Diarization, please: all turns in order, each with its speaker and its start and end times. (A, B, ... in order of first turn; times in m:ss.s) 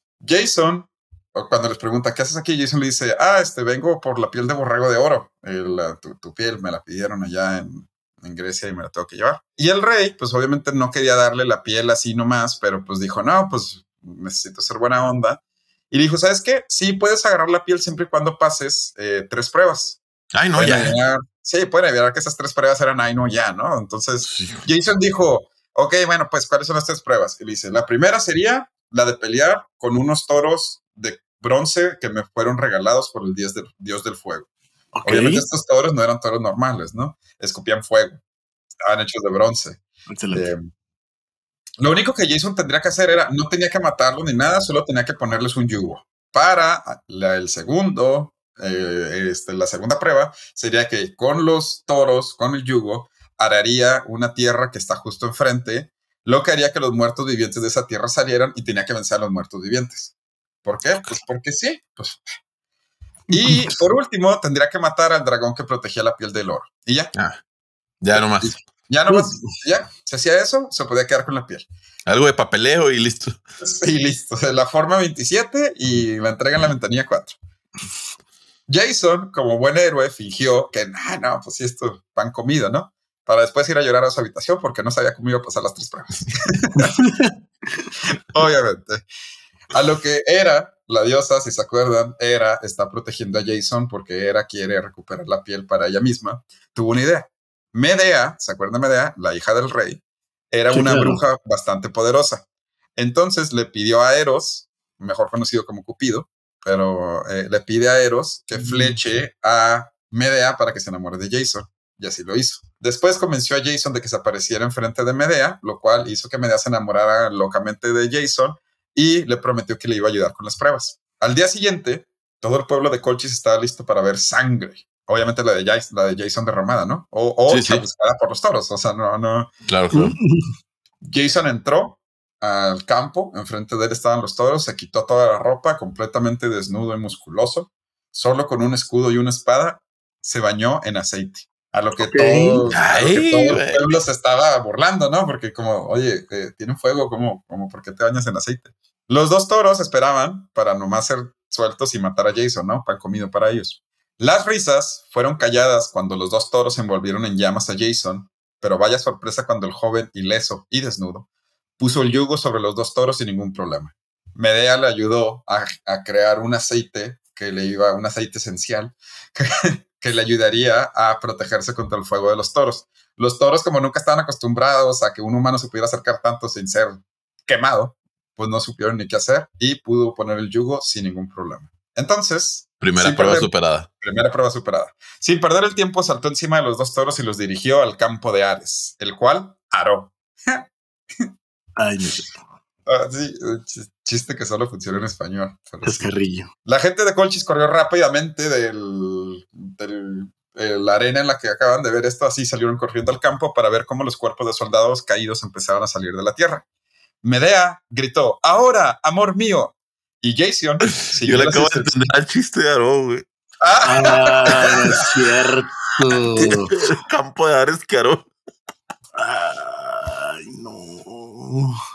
0:00.2-0:15.4 A
0:15.9-0:20.0 A
0:20.3-0:21.0 B
0:20.6-0:34.5 A
0:24.2-0:24.6 B
0:34.9-0:35.4 C
0:35.0-0:38.2 A
0:38.8-0:40.6 A
0:40.1-0:40.5 C
0:41.8-1:02.3 A
1:03.3-1:03.8 C
1:03.3-1:07.1 A
1:07.1-1:07.4 B
1:08.0-1:08.5 B
1:08.1-1:11.6 A
1:09.1-1:09.5 C
1:12.0-1:13.4 B
1:13.6-1:17.4 A
1:18.7-1:26.9 A
1:26.8-1:27.9 C
1:28.3-1:29.0 A
1:29.7-1:40.0 A
1:40.5-1:42.4 A
1:40.7-1:41.2 C
1:43.0-2:09.5 A
1:48.6-1:49.0 C
2:07.5-2:07.8 B
2:09.7-2:10.2 B
2:09.9-2:10.5 C
2:11.0-2:41.2 A
2:22.0-2:22.6 C
2:22.7-2:23.9 B
2:41.8-3:10.7 A
3:02.8-3:03.9 B
3:11.8-3:12.4 C
3:12.9-3:16.1 A
3:15.8-3:16.5 C
3:16.6-3:26.6 A
3:27.2-3:32.0 A
3:31.0-3:33.2 B
3:33.6-3:34.7 A
3:33.8-3:36.7 C
3:36.4-3:38.3 B
3:39.2-3:41.8 C